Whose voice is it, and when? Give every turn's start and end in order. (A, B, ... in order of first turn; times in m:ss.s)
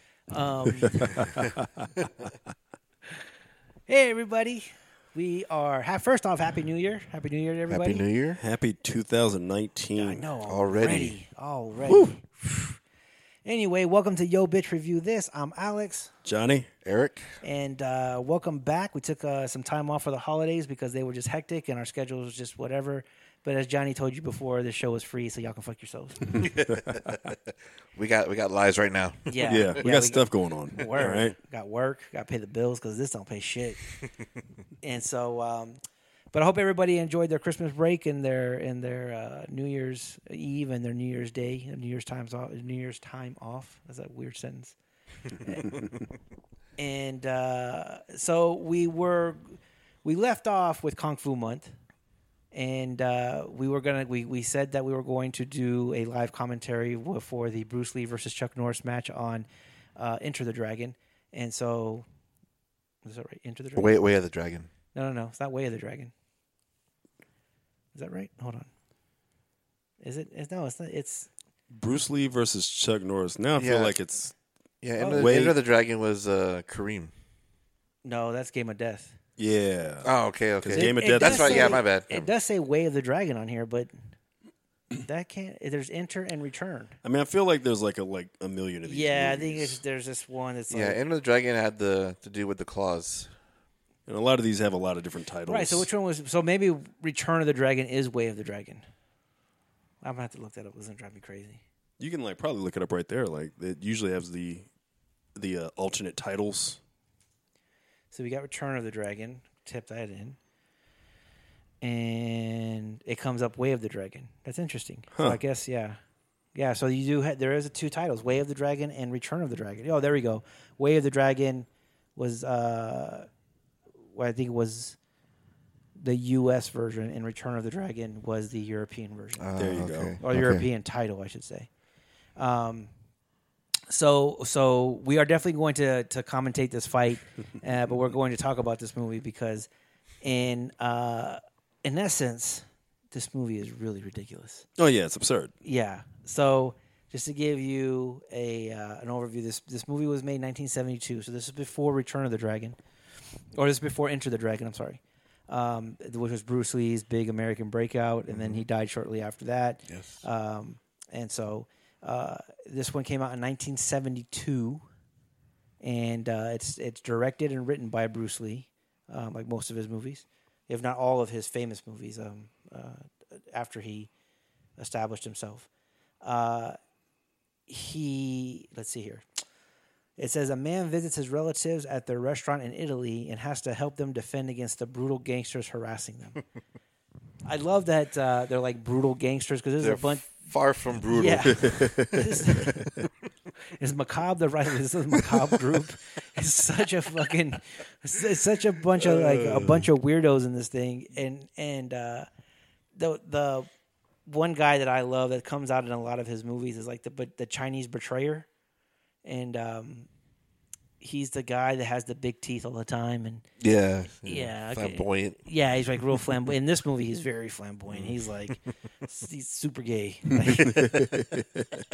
0:00.3-0:01.5 A
0:03.9-0:08.0 A
0:07.7-0:08.4 B
0:08.4-0:10.2 C
0:10.0-0:12.8 A
0:10.5-0:11.1 B
0:13.4-0:16.1 A
0:16.2-0:16.7 C
0:16.8-0:17.3 B
0:17.4-0:26.4 A
0:26.3-0:27.2 C
0:26.4-0:29.7 B
0:29.3-0:33.8 A
0:29.4-0:31.4 C
0:34.8-0:35.8 A
0:36.3-0:44.8 A
0:45.3-0:45.9 A
0:46.8-0:51.7 A
0:52.5-0:59.5 A
1:00.0-1:02.0 A
1:03.0-1:04.0 A
1:03.8-1:04.7 B
1:04.9-1:06.1 A
1:07.9-1:08.7 A
1:10.0-1:11.3 A
1:11.7-1:14.3 C
1:13.6-1:14.0 B
1:14.8-1:17.1 B
1:15.0-1:15.4 A
1:15.1-1:15.6 C
1:18.0-1:19.1 A
1:19.4-1:20.1 C
1:20.0-1:22.3 B
1:20.6-1:21.8 C
1:20.7-1:23.9 A
1:24.9-1:27.0 A
1:27.0-1:29.8 C
1:28.8-1:31.0 A
1:30.7-1:33.3 B
1:34.1-1:35.9 C
1:35.5-1:38.8 A
1:40.0-1:41.6 A
1:42.0-1:44.7 C
1:45.4-1:46.8 C
1:48.1-1:50.4 A
1:51.8-1:56.0 A
1:55.1-1:55.4 C
1:56.6-2:03.3 A
2:04.1-2:05.0 A
2:06.0-2:09.5 A
2:09.4-2:10.6 B
2:09.6-2:10.2 C
2:10.2-2:11.7 A
2:12.4-2:12.9 A
2:13.9-2:19.7 A
2:20.2-2:24.7 A
2:24.8-2:25.5 C
2:25.6-2:32.8 A
2:33.6-2:44.8 A
2:38.3-2:38.6 B
2:39.9-2:40.2 B
2:45.8-2:54.1 A
2:54.8-2:55.7 A
2:56.2-2:56.8 A
2:57.7-2:59.2 A
3:00.2-3:06.4 A
3:07.5-3:10.3 A
3:09.8-3:12.9 B
3:11.1-3:12.9 A
3:11.6-3:12.2 C
3:13.8-3:22.3 A
3:19.0-3:19.8 B
3:23.0-3:23.7 A
3:24.3-3:28.5 A
3:29.2-3:30.1 A
3:31.0-3:33.4 A
3:33.6-3:35.4 B
3:34.2-3:41.0 A
3:37.9-3:38.6 B
3:40.5-3:41.4 B
3:40.6-3:41.4 C